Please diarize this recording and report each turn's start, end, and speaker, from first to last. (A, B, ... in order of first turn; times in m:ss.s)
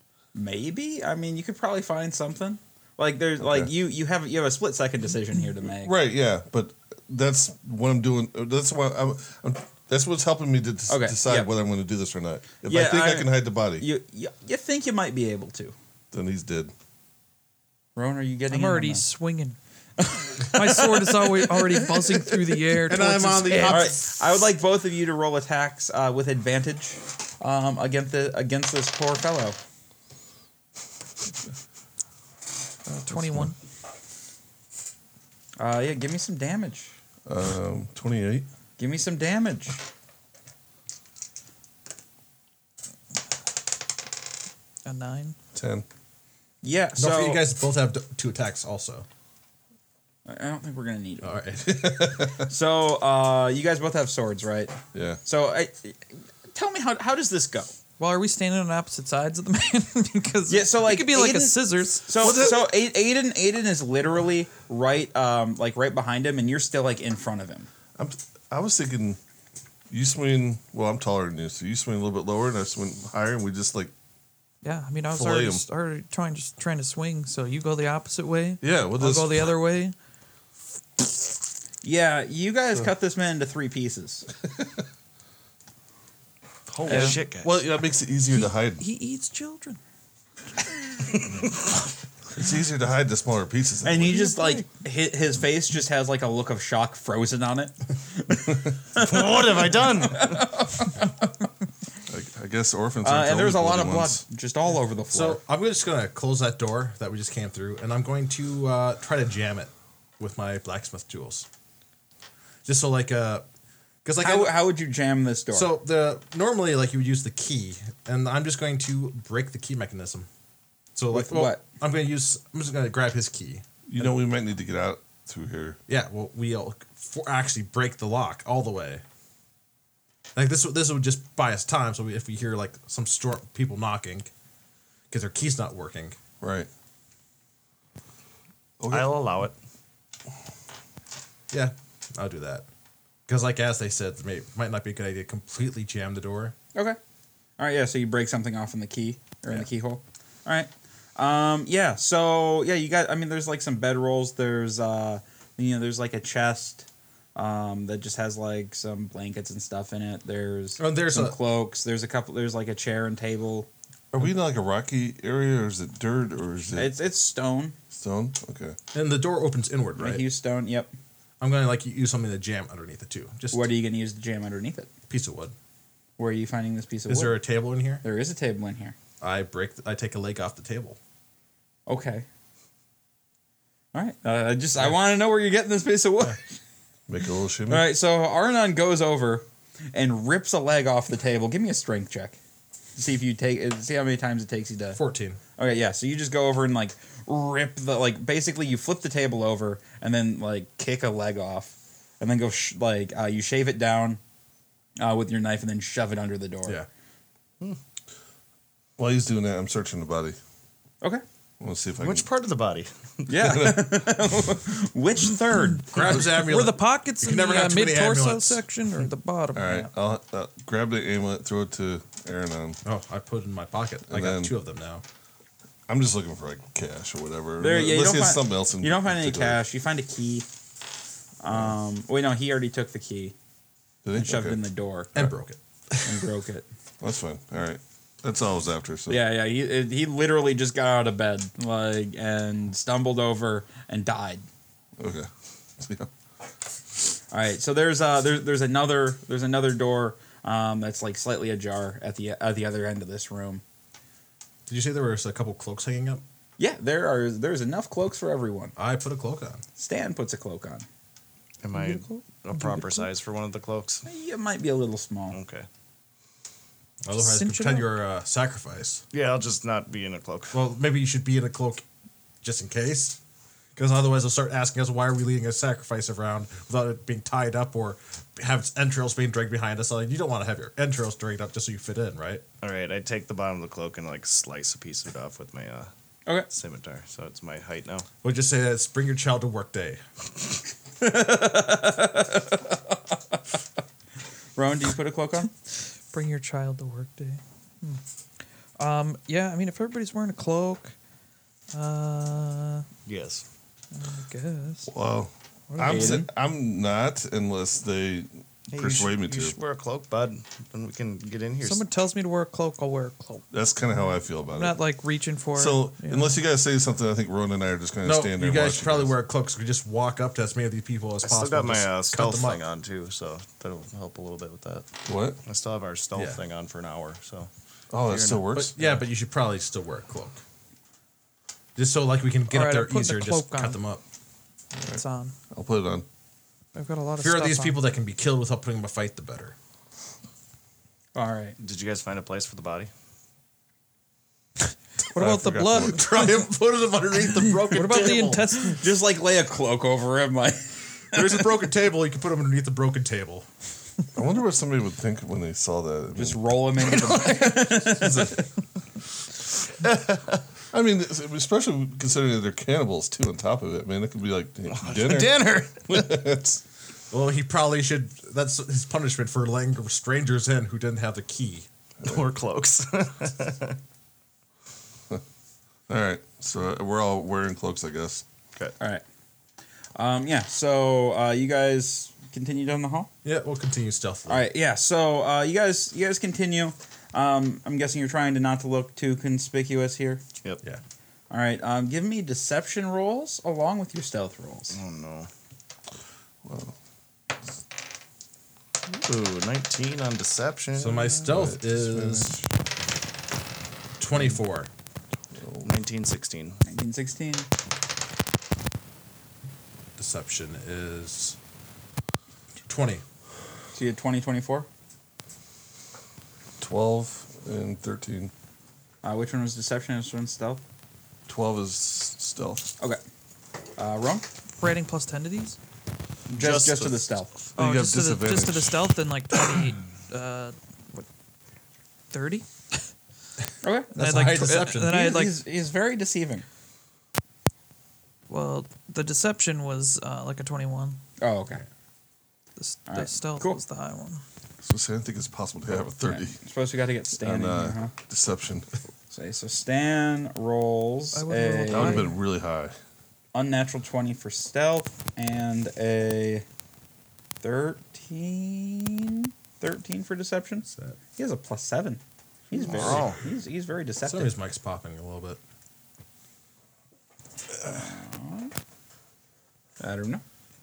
0:00.3-0:05.9 A
0:03.4-0:03.7 B
0:05.8-0:13.9 B
0:10.9-0:11.5 A
0:12.6-0:15.7 A
0:16.1-0:16.7 B
0:18.0-0:19.0 A
0:18.5-0:19.6 C
0:20.0-0:22.3 A
0:20.4-0:23.9 C
0:22.8-0:24.2 D
0:23.6-0:29.6 A
0:32.9-0:33.6 C
0:33.1-0:33.5 B
0:35.6-0:36.9 A
0:37.2-0:38.5 B
0:38.8-0:39.8 A
0:44.8-0:45.4 C
0:45.5-0:45.8 B
0:46.6-0:47.4 A
0:47.0-0:49.0 D
0:50.2-0:51.4 A
0:51.2-0:52.3 D
0:51.6-0:52.5 B
0:52.5-0:57.7 A
0:54.9-0:55.2 B
0:58.0-1:02.1 C
1:00.5-1:07.7 A
1:02.2-1:02.7 B
1:08.0-1:09.2 B
1:09.9-1:13.9 B
1:14.6-1:19.9 C
1:15.1-1:15.6 B
1:18.6-1:19.5 B
1:21.8-1:24.3 A
1:26.7-1:27.6 E
1:26.8-1:27.2 C
1:26.9-1:27.2 A
1:26.9-1:28.8 B
1:28.3-1:29.8 C
1:31.1-1:31.6 E
1:32.3-1:34.3 B
1:33.8-1:41.2 A
1:34.1-1:34.6 C
1:38.9-1:40.6 E
1:42.1-1:44.2 B
1:43.0-1:45.4 A
1:45.1-1:51.5 D
1:52.6-1:53.4 D
1:54.0-1:54.6 D
1:54.2-1:55.7 A
1:55.5-2:00.3 D
2:00.9-2:04.1 D
2:01.1-2:01.6 A
2:03.9-2:05.8 B
2:05.9-2:09.0 D
2:10.3-2:14.3 D
2:15.1-2:16.2 D
2:16.4-2:16.7 B
2:18.8-2:19.2 B
2:18.9-2:19.6 E
2:21.5-2:22.6 D
2:23.3-2:26.5 D
2:27.6-2:43.7 A
2:40.8-2:41.4 D
2:44.1-2:46.9 B
2:46.7-2:47.8 A
2:47.9-2:48.8 B
2:48.9-2:50.2 D
2:50.0-2:50.9 A
2:51.4-2:53.7 D
2:53.5-2:54.9 A
2:55.1-2:55.5 D
2:56.2-2:57.4 A
2:57.1-2:58.0 D
2:58.0-2:59.0 A
2:59.2-3:01.0 D
3:01.9-3:02.2 A
3:03.9-3:06.5 A
3:07.1-3:07.8 B
3:07.7-3:12.4 A
3:13.0-3:15.0 A
3:14.9-3:15.4 D
3:15.6-3:24.2 A
3:25.0-3:26.8 A
3:29.0-3:30.4 B
3:31.6-3:32.3 B
3:32.0-3:33.7 E
3:33.3-3:36.3 A
3:33.4-3:33.9 B
3:35.9-3:38.6 D
3:36.0-3:39.9 C
3:39.5-3:42.8 B
3:42.8-3:45.0 D
3:44.1-3:44.5 B
3:45.9-3:49.6 B
3:47.6-3:50.5 A
3:51.4-3:53.3 A
3:54.0-3:54.6 B
3:54.1-3:55.3 A
3:55.1-3:56.3 D
3:56.0-3:56.6 A
3:57.0-3:59.2 B
3:59.1-4:04.4 A
4:05.0-4:06.1 B
4:07.3-4:13.6 A
4:14.7-4:16.2 D
4:16.6-4:18.7 A
4:18.8-4:19.6 D
4:19.8-4:20.8 A
4:21.6-4:24.0 E
4:21.7-4:23.1 C
4:24.0-4:25.4 A
4:25.3-4:25.7 E
4:27.0-4:29.0 D
4:27.1-4:27.9 C
4:29.1-4:30.6 E
4:30.5-4:31.8 D
4:32.4-4:33.2 D
4:33.7-4:42.4 D
4:42.6-4:45.9 E
4:46.5-4:48.1 E
4:48.2-4:50.0 D
4:51.0-4:52.8 A
4:54.6-4:55.5 A
4:56.1-4:58.0 C
4:58.8-5:00.9 C
5:01.7-5:02.8 C
5:03.0-5:03.4 E
5:03.9-5:04.9 C
5:04.9-5:09.6 B
5:05.7-5:06.2 C
5:05.8-5:06.3 A
5:08.7-5:11.8 E
5:11.6-5:16.4 C
5:13.5-5:14.8 B
5:15.5-5:19.1 B
5:18.0-5:22.6 D
5:21.2-5:24.9 E
5:25.0-5:25.4 B
5:25.4-5:27.5 E
5:27.9-5:28.7 B
5:28.0-5:28.5 E
5:28.5-5:30.4 D
5:31.8-5:34.0 D
5:32.5-5:33.8 C
5:34.8-5:36.0 B
5:34.9-5:35.3 C
5:36.7-5:37.8 C
5:37.2-5:39.5 D
5:41.1-5:41.6 A
5:41.6-5:42.9 E
5:45.1-5:46.5 C
5:45.2-5:46.0 B
5:45.7-5:48.5 D
5:47.3-5:48.9 C
5:48.5-5:51.4 A
5:51.1-5:53.4 D
5:54.1-5:58.4 B
5:56.1-5:58.5 A
5:59.8-6:00.3 E
6:00.7-6:06.6 B
6:04.7-6:06.2 E
6:07.1-6:11.6 D
6:12.0-6:13.8 E
6:15.9-6:18.2 B
6:20.0-6:23.1 A
6:23.2-6:24.4 D
6:24.3-6:30.2 A
6:31.3-6:34.8 A
6:34.7-6:35.3 E
6:36.4-6:36.7 B
6:38.9-6:41.3 E
6:40.8-6:42.4 D
6:41.3-6:42.5 B
6:44.0-6:44.7 D
6:45.3-6:45.7 B
6:45.6-6:46.6 E
6:46.6-6:47.5 A
6:50.0-6:51.4 D
6:52.6-6:53.0 D
6:53.7-6:54.7 A
6:56.6-6:58.3 B
6:59.0-7:00.6 A
7:01.3-7:02.7 B
7:03.8-7:04.2 A
7:04.6-7:05.6 C
7:06.3-7:07.0 E
7:06.3-7:07.3 A
7:07.6-7:08.9 B
7:07.6-7:11.0 C
7:12.1-7:12.8 C
7:13.6-7:13.9 A
7:13.9-7:15.0 D
7:14.0-7:15.4 C
7:14.8-7:16.4 A
7:18.3-7:21.0 C
7:21.2-7:21.6 A
7:22.6-7:24.2 C
7:22.9-7:23.6 A
7:24.6-7:26.4 B
7:26.0-7:27.9 A
7:27.2-7:28.7 B
7:29.1-7:32.0 A
7:31.1-7:32.2 C
7:31.7-7:32.7 B
7:33.3-7:36.4 A
7:37.4-7:44.3 A
7:42.6-7:43.2 E
7:44.0-7:45.4 D
7:47.6-7:48.5 A
7:49.8-7:50.2 A